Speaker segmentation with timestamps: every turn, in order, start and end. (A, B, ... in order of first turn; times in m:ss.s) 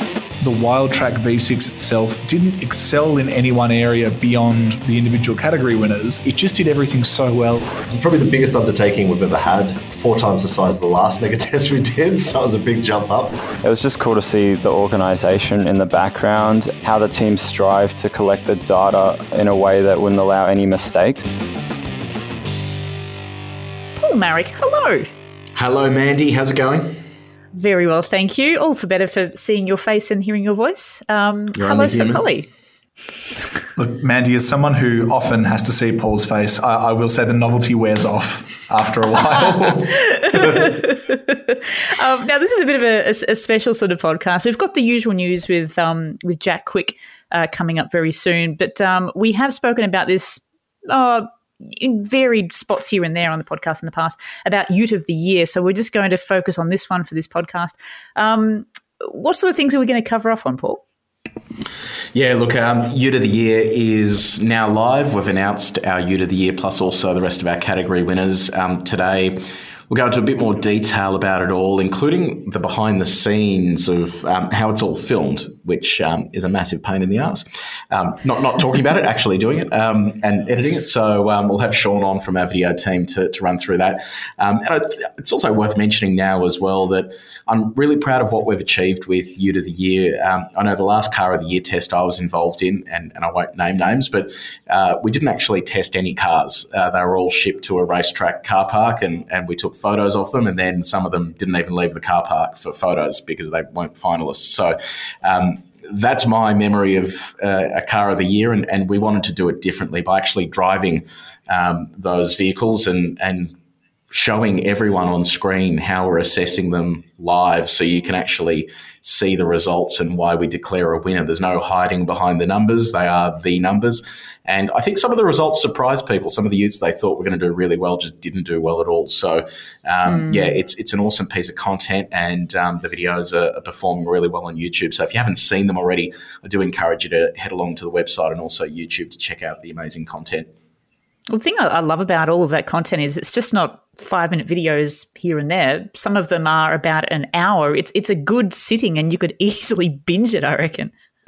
0:00.4-0:07.8 A
0:07.9-0:13.4 B
0:13.6-0:21.2 C
0:24.0-0:25.1 D
0:25.5-0:27.0 E
0:27.5-0:32.5 D
0:31.6-0:32.2 E
0:33.8-0:40.7 A
0:39.7-1:00.8 D
1:02.1-1:53.5 E
1:54.1-2:20.5 E
2:10.1-2:10.5 D
2:21.3-2:30.9 D